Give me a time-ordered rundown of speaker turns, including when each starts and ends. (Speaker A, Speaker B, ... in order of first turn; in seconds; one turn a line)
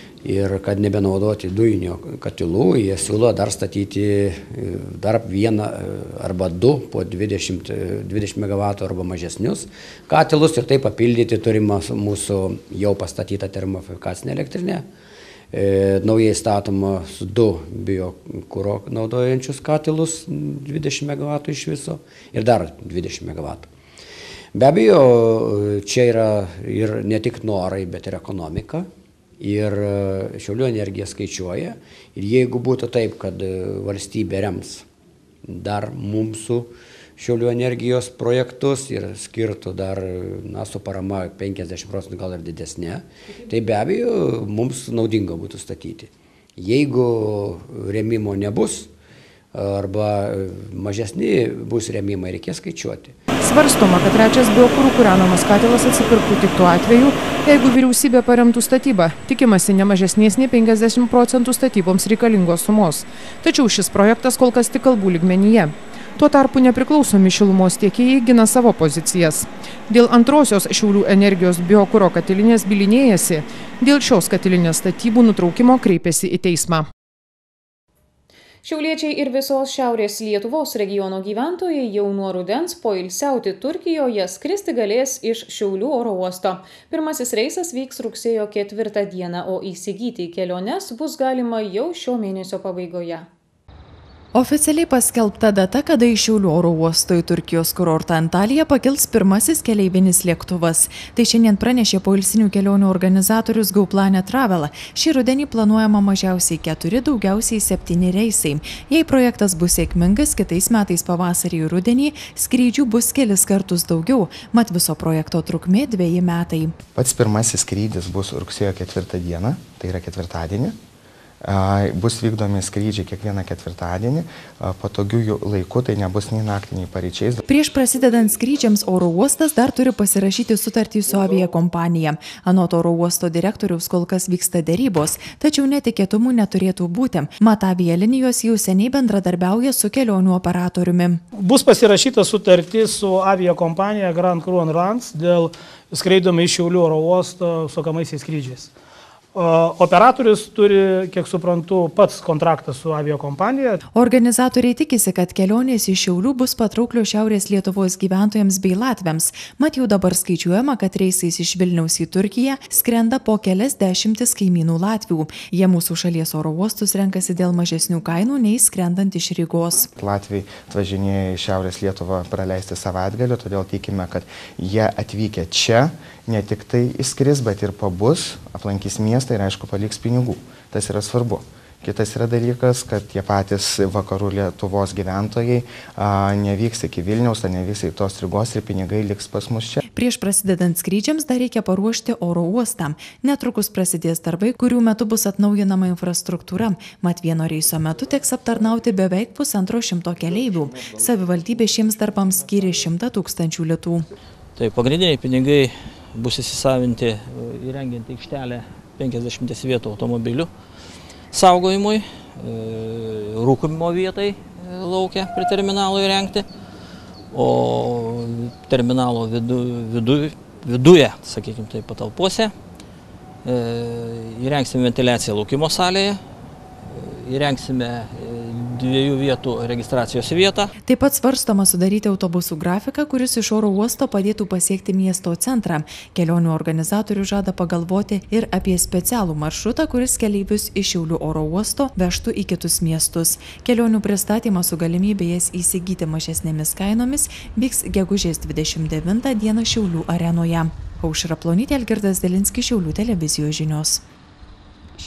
Speaker A: 0.2-14.9
Speaker A: 15.5-23.7
Speaker A: 24.5-34.9
Speaker A: 35.4-48.9
Speaker A: 49.5-53.1
Speaker B: 53.4-76.8
Speaker C: 78.6-93.3
Speaker D: 94.3-116.8
Speaker E: 116.9-120.7
Speaker E: 121.4-127.4
Speaker D: 127.5-141.2
Speaker F: 141.3-148.7
Speaker F: 149.3-153.8
Speaker D: 153.9-169.9
Speaker E: 169.9-189.8
Speaker D: 189.9-204.1
Speaker G: 204.6-210.5
Speaker G: 211.3-216.5
Speaker G: 217.3-222.5
Speaker G: 223.4-226.2
Speaker G: 226.9-230.7
Speaker D: 230.8-254.0